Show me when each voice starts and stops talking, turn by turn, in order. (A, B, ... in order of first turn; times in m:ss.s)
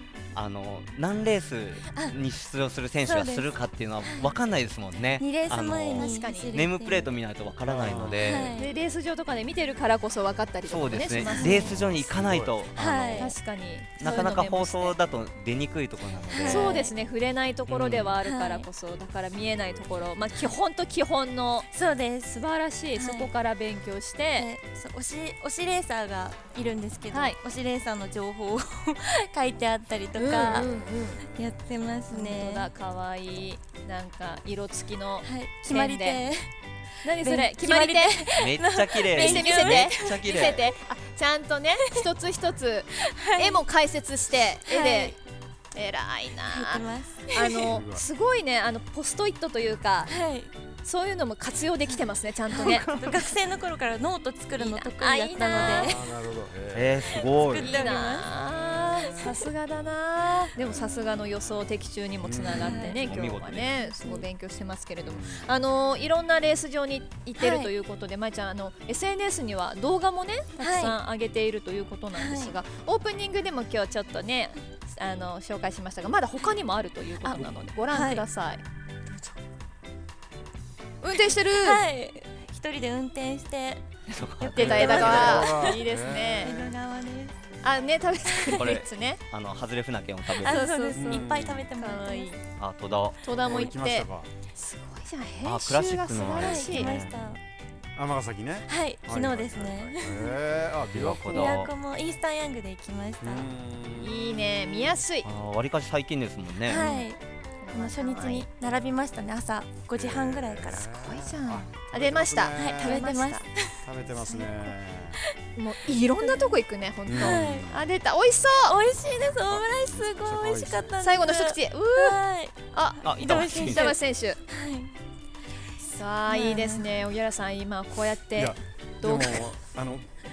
0:00.3-0:08.5 A
0:03.0-0:04.3 B
0:05.2-0:07.2 B
0:06.0-0:06.5 C
0:07.6-0:08.5 D
0:08.2-0:08.8 B
0:08.6-0:11.7 C
0:10.6-0:13.3 A
0:11.2-0:11.9 B
0:11.5-0:12.6 D
0:12.8-0:13.4 B
0:13.1-0:15.0 C
0:14.0-0:16.8 A
0:16.3-0:16.9 B
0:16.5-0:21.7 C
0:17.7-0:18.2 A
0:18.2-0:18.7 B
0:19.6-0:20.1 D
0:21.7-0:23.3 B
0:22.3-0:24.5 C
0:24.4-0:32.7 B
0:27.1-0:27.4 C
0:30.2-0:31.2 C
0:32.1-0:36.2 C
0:35.2-0:36.5 B
0:37.0-0:38.4 C
0:37.1-0:40.6 B
0:38.4-0:40.7 A
0:39.1-0:45.2 C
0:43.0-0:43.6 B
0:44.7-0:45.2 B
0:45.7-0:50.2 C
0:46.5-0:47.7 B
0:47.7-0:48.1 D
0:50.1-0:50.5 B
0:50.8-0:52.9 C
0:51.9-0:56.0 B
0:52.5-0:53.3 A
0:54.6-0:56.0 C
0:55.6-0:57.6 D
0:56.7-0:57.8 A
0:57.0-0:58.3 B
0:57.6-1:18.6 C
0:58.3-0:59.3 D
0:59.0-0:59.3 B
1:00.6-1:01.4 D
1:02.2-1:03.2 D
1:02.5-1:03.1 B
1:03.0-1:03.7 A
1:03.8-1:04.3 B
1:05.0-1:05.5 D
1:07.4-1:07.7 B
1:10.6-1:11.0 B
1:12.1-1:12.6 B
1:17.2-1:18.2 B
1:21.0-1:21.8 C
1:21.1-1:23.8 B
1:24.1-1:25.4 A
1:24.4-1:27.4 B
1:24.5-1:26.6 C
1:24.6-1:26.8 D
1:27.6-1:29.2 C
1:28.5-1:30.6 A
1:30.4-1:32.4 C
1:30.4-1:32.3 B
1:30.9-1:31.7 D
1:32.6-1:33.2 A
1:33.2-1:36.9 C
1:33.4-1:34.3 D
1:35.4-1:37.1 A
1:36.3-1:37.4 B
1:38.0-1:41.7 D
1:38.7-1:40.3 B
1:40.9-1:41.7 A
1:41.3-1:43.5 B
1:43.2-1:45.0 D
1:44.0-1:45.3 C
1:45.2-1:46.9 A
1:46.6-1:47.2 B
1:46.7-1:48.5 C
1:47.7-1:50.9 B
1:50.0-1:53.1 D
1:51.0-1:53.5 C
1:52.6-1:54.4 B
1:53.8-1:55.2 D
1:54.4-1:54.7 C
1:55.6-1:58.8 C
1:56.2-1:56.6 B
1:57.1-1:57.8 D
1:57.2-1:57.7 B
1:58.6-2:04.9 B
1:59.5-2:01.0 D
2:01.0-2:02.2 C
2:02.7-2:04.4 C
2:03.0-2:03.8 A
2:05.8-2:06.9 B
2:05.9-2:09.4 C
2:08.4-2:10.1 D